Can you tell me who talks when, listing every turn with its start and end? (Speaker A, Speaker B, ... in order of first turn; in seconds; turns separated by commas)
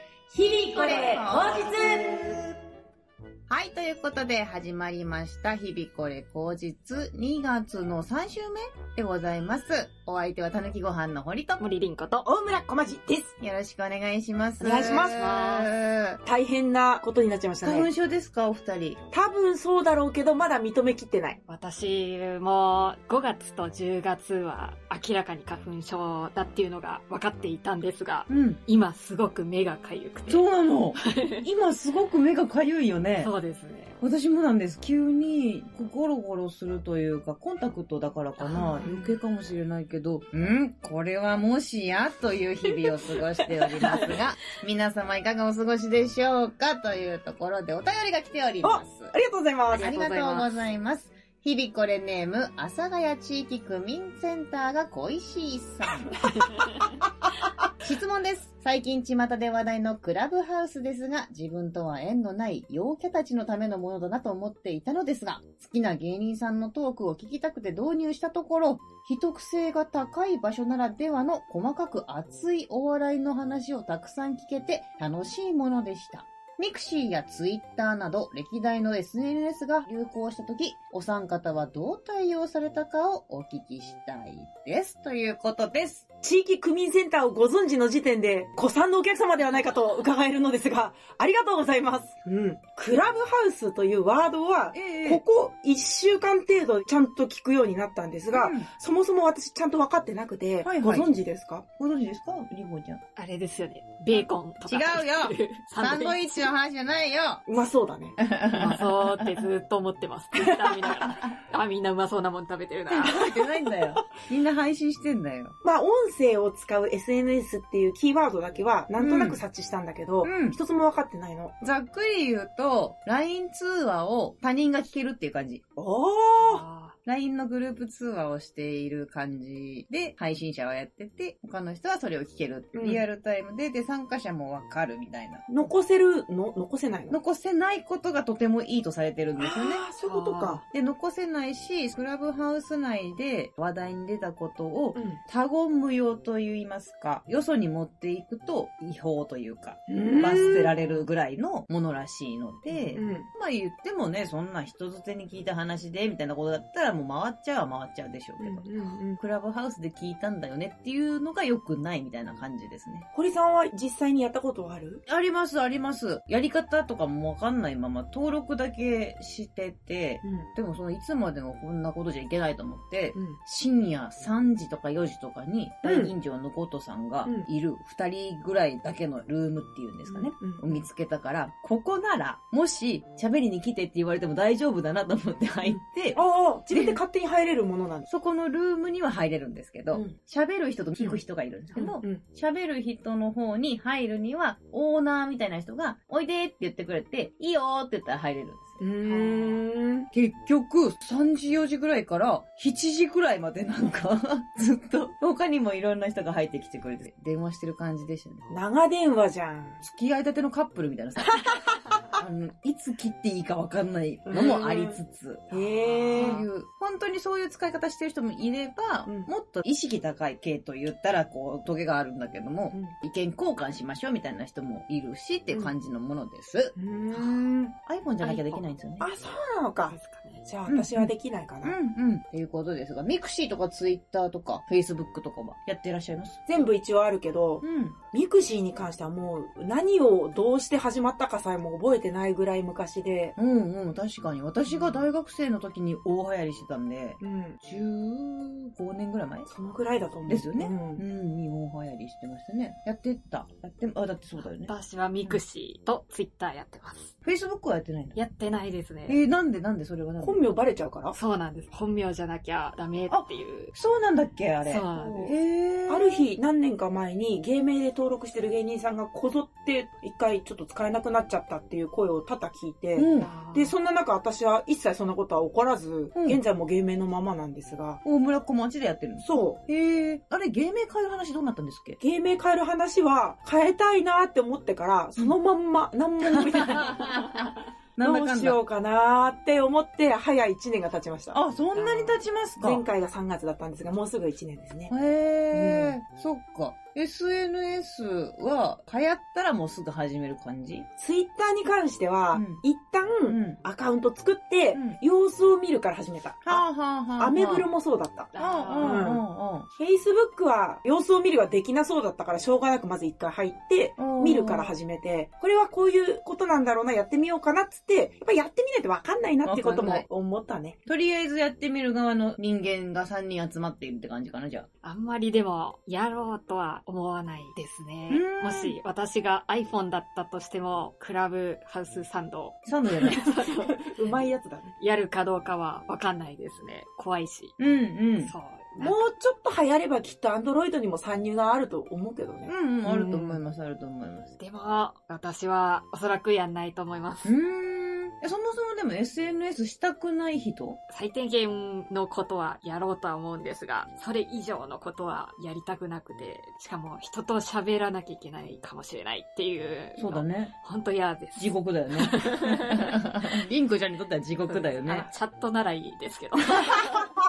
Speaker A: 0.3-2.4, Speaker B: 0.7-2.4, Speaker B: 3.5-11.6, Speaker C: 11.6-12.3, Speaker A: 12.2-13.3, Speaker B: 13.4-16.2, Speaker A: 14.6-15.2, Speaker C: 14.9-15.7, Speaker A: 16.2-17.9, Speaker B: 17.6-19.0, Speaker A: 19.1-21.4, Speaker C: 21.5-31.4, Speaker B: 28.3-28.6, Speaker B: 30.3-33.3, Speaker C: 33.2-34.0, Speaker B: 34.0-49.1, Speaker C: 38.4-39.0, Speaker A: 38.8-39.1, Speaker C: 43.5-44.2, Speaker A: 48.6-49.9, Speaker C: 49.7-50.5, Speaker B: 49.7-56.1, Speaker C: 56.2-57.0, Speaker B: 57.8-86.0, Speaker A: 86.2-101.7, Speaker B: 94.7-95.2, Speaker B: 98.3-98.7, Speaker B: 100.6-101.2, Speaker B: 101.8-103.0, Speaker C: 103.2-106.5, Speaker B: 104.1-107.5, Speaker A: 107.5-108.2, Speaker B: 108.2-109.3, Speaker C: 108.5-113.2, Speaker B: 112.9-115.5, Speaker A: 113.6-114.0, Speaker A: 115.6-121.5, Speaker B: 119.0-119.4, Speaker B: 120.2-120.6, Speaker B: 121.6-125.6, Speaker A: 125.8-126.6, Speaker C: 126.4-126.9, Speaker B: 127.0-135.4, Speaker A: 132.7-133.0, Speaker A: 135.5-137.2, Speaker B: 137.1-139.8, Speaker A: 139.4-140.6, Speaker C: 140.0-140.6, Speaker B: 140.7-158.7, Speaker A: 144.9-145.2, Speaker A: 149.9-151.0, Speaker A: 152.7-153.3, Speaker A: 158.4-159.2, Speaker B: 159.2-163.1, Speaker A: 163.1-165.0, Speaker B: 165.1-187.0, Speaker A: 170.2-170.5, Speaker A: 175.8-176.1, Speaker A: 180.1-180.8, Speaker A: 186.1-188.1, Speaker B: 188.1-198.8, Speaker A: 191.7-192.2, Speaker A: 198.8-200.1, Speaker C: 199.0-199.6, Speaker B: 200.1-208.6, Speaker A: 208.5-209.8, Speaker B: 209.8-211.5, Speaker B: 212.2-215.5, Speaker A: 214.3-215.0, Speaker A: 215.5-216.4, Speaker C: 215.7-216.4, Speaker B: 216.1-227.3, Speaker A: 226.8-227.7, Speaker B: 227.8-229.1, Speaker C: 228.2-228.6, Speaker A: 229.0-231.8, Speaker C: 229.9-230.4, Speaker B: 230.7-231.1, Speaker B: 231.6-236.4, Speaker A: 236.5-243.3, Speaker B: 237.6-238.0, Speaker B: 243.4-249.5, Speaker A: 247.2-247.6, Speaker A: 249.5-251.0, Speaker B: 250.3-254.7, Speaker C: 254.4-257.1, Speaker B: 257.2-258.2, Speaker C: 258.1-259.2, Speaker B: 259.1-260.4, Speaker A: 260.2-261.2, Speaker C: 261.1-263.7, Speaker B: 263.1-266.2, Speaker C: 264.6-265.3, Speaker A: 265.9-278.0, Speaker B: 272.9-273.3, Speaker C: 273.1-273.7, Speaker B: 276.1-276.4, Speaker B: 278.0-282.0, Speaker A: 279.2-279.6, Speaker A: 282.0-287.3, Speaker B: 286.2-288.6, Speaker A: 288.0-291.4, Speaker B: 291.3-292.8, Speaker C: 291.7-292.1, Speaker A: 292.6-294.9, Speaker B: 294.9-300.9, Speaker A: 295.5-296.0, Speaker A: 301.0-306.6, Speaker B: 302.3-302.6, Speaker B: 303.2-303.6, Speaker B: 306.4-307.7, Speaker A: 307.2-309.2, Speaker C: 308.3-309.1, Speaker B: 308.4-309.7, Speaker A: 309.8-320.8, Speaker B: 314.0-314.7, Speaker B: 319.4-320.1, Speaker B: 320.9-324.7, Speaker C: 324.8-334.3, Speaker B: 328.1-328.8, Speaker B: 332.6-333.3, Speaker A: 333.7-334.7, Speaker C: 334.8-337.5, Speaker B: 337.6-338.3, Speaker C: 338.2-339.1, Speaker A: 338.8-343.4, Speaker B: 342.5-344.4, Speaker C: 344.4-347.3, Speaker B: 347.2-350.8, Speaker C: 350.9-363.3, Speaker B: 360.0-360.5, Speaker B: 361.4-365.1, Speaker C: 364.6-367.1